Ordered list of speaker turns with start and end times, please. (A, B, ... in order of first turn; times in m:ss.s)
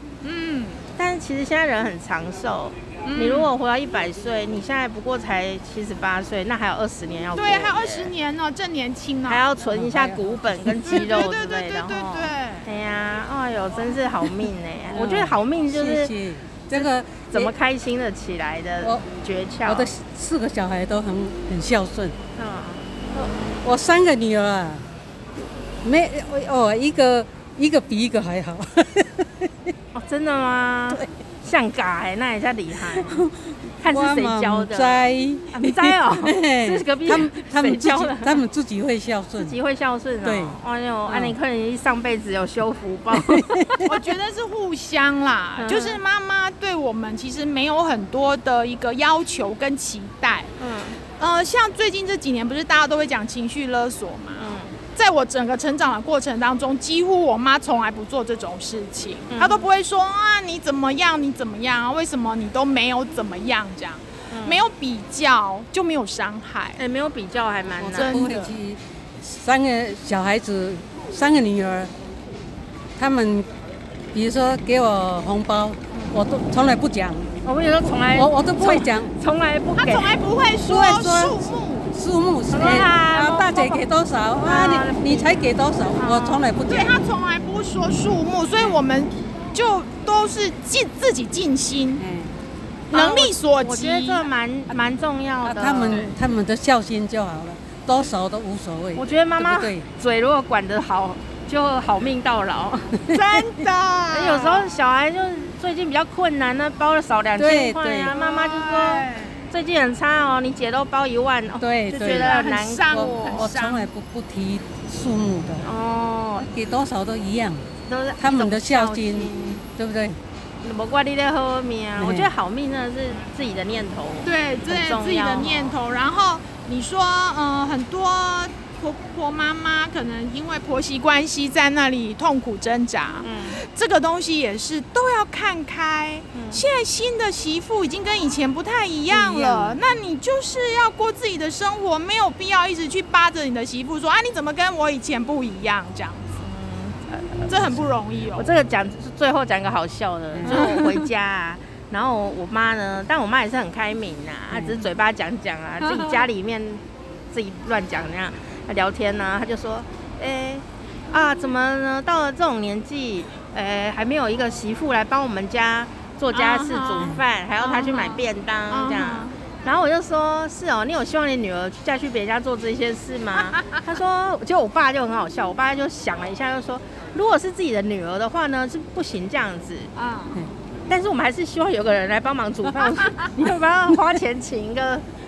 0:00.2-0:00.8 A
0:01.0-0:08.1 B
0:03.0-0:03.5 A
0:07.4-0:09.4 A
0:09.3-0:16.1 B
0:09.6-0:11.0 C
0:10.9-0:12.7 A
0:14.9-0:17.5 C
0:16.7-0:19.9 B
0:19.6-0:22.2 C
0:22.4-0:23.2 B
0:23.6-0:24.8 C
0:25.8-0:29.7 C
0:29.9-0:33.3 B
0:32.9-0:39.6 C
0:33.8-0:38.4 B
0:39.4-0:43.9 B
0:40.2-0:41.4 C
0:43.1-0:43.9 C
0:43.8-0:50.5 A
0:45.6-0:46.0 B
0:50.6-0:51.0 B
0:51.2-1:06.8 A
0:54.4-0:54.7 B
0:59.3-0:59.6 B
1:04.3-1:04.6 B
1:06.8-1:08.2 B
1:07.8-1:11.9 C
1:08.0-1:08.5 A
1:13.0-1:13.5 C
1:14.1-1:17.3 C
1:17.4-1:20.1 B
1:18.1-1:19.1 C
1:19.8-1:21.9 A
1:20.6-1:21.4 B
1:21.9-1:27.0 C
1:22.5-1:23.8 B
1:24.4-1:25.3 B
1:26.0-1:26.4 B
1:26.7-1:32.0 A
1:32.0-1:32.4 C
1:32.9-1:34.3 A
1:32.9-1:36.1 B
1:35.4-1:39.9 C
1:39.0-1:43.0 B
1:43.1-1:44.7 A
1:44.1-1:53.5 B
1:47.4-1:48.1 C
1:48.0-1:49.4 A
1:51.6-1:55.7 C
1:52.1-1:53.9 A
1:55.6-1:56.5 B
1:56.4-1:57.7 C
1:57.8-1:59.6 B
1:58.2-2:00.2 C
2:00.6-2:05.8 B
2:02.0-2:02.3 C
2:04.2-2:26.3 A
2:13.2-2:13.6 B
2:16.3-2:16.6 B
2:19.1-2:19.8 B
2:26.4-2:27.7 B
2:27.5-2:28.5 A
2:28.4-2:59.9 B
2:30.3-2:30.6 C
2:30.5-2:31.1 A
2:34.5-2:34.8 C
2:35.8-2:36.2 A
2:46.3-2:49.3 A
3:00.0-3:00.3 A
3:00.9-3:05.0 B